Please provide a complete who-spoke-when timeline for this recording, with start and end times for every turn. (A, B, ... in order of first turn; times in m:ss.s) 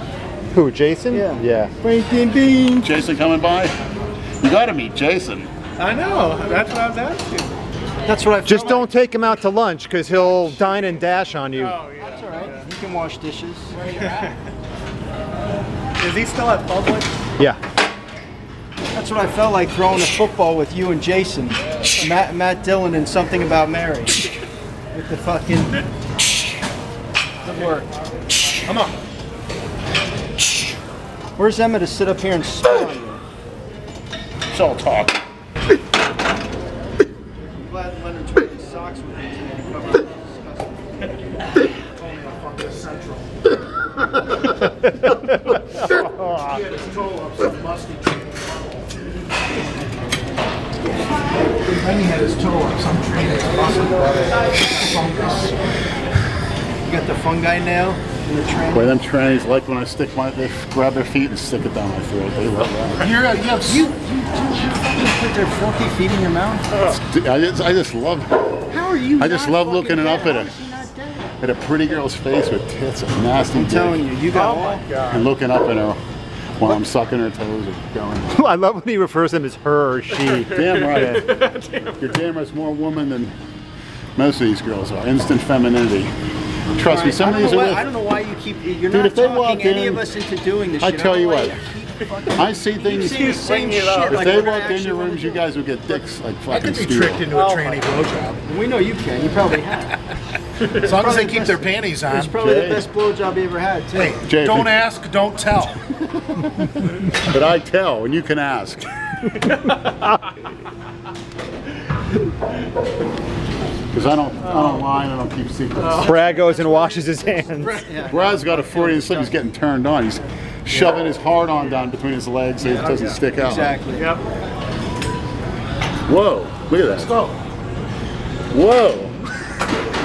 0:00.5-0:01.7 A
0:01.1-0:02.9 B
0:02.8-0:03.7 C
0:04.4-0:05.5 C
0:05.8-0:07.5 D
0:08.1-0:09.0 B
0:08.4-0:11.8 A
0:11.6-0:12.7 D
0:12.0-0:13.8 B
0:13.8-0:14.4 D
0:16.0-0:17.1 D
0:18.9-0:24.2 B
0:24.9-0:25.8 B
0:27.4-0:27.9 B
0:31.4-0:33.2 B
0:34.5-0:35.2 C
0:37.6-0:41.2 B
0:41.8-0:43.4 E
0:45.9-0:46.6 A
0:46.3-0:48.9 E
0:51.6-0:55.6 E
0:56.8-0:58.9 B
0:58.7-1:03.2 C
1:03.0-1:03.9 E
1:03.6-1:06.7 B
1:06.7-1:07.0 D
1:06.8-1:08.3 C
1:08.7-1:11.4 B
1:09.2-1:10.5 C
1:11.4-1:14.0 C
1:13.5-1:14.8 B
1:14.3-1:15.3 D
1:15.1-1:16.0 C
1:16.6-1:18.3 C
1:18.3-1:21.2 A
1:20.2-1:22.2 D
1:20.5-1:21.4 C
1:22.0-1:23.4 C
1:24.2-1:26.1 C
1:26.7-1:35.4 B
1:26.8-1:27.9 C
1:28.9-1:30.1 C
1:30.8-1:31.6 C
1:32.3-1:37.3 C
1:32.8-1:34.5 D
1:36.5-1:38.4 E
1:37.3-1:37.9 D
1:38.4-1:40.0 B
1:40.7-1:42.4 E
1:40.7-1:44.2 B
1:42.4-1:42.9 C
1:43.9-1:45.8 E
1:44.2-1:44.8 C
1:47.2-1:48.9 C
1:53.9-1:56.2 C
1:54.5-1:54.9 D
1:55.8-1:57.9 D
1:56.0-1:57.8 A
1:57.8-1:59.3 B
1:58.1-2:03.8 C
2:02.7-2:03.1 D
2:03.4-2:04.2 B
2:04.0-2:04.2 D
2:06.1-2:07.1 C
2:06.9-2:07.4 E
2:08.5-2:09.1 C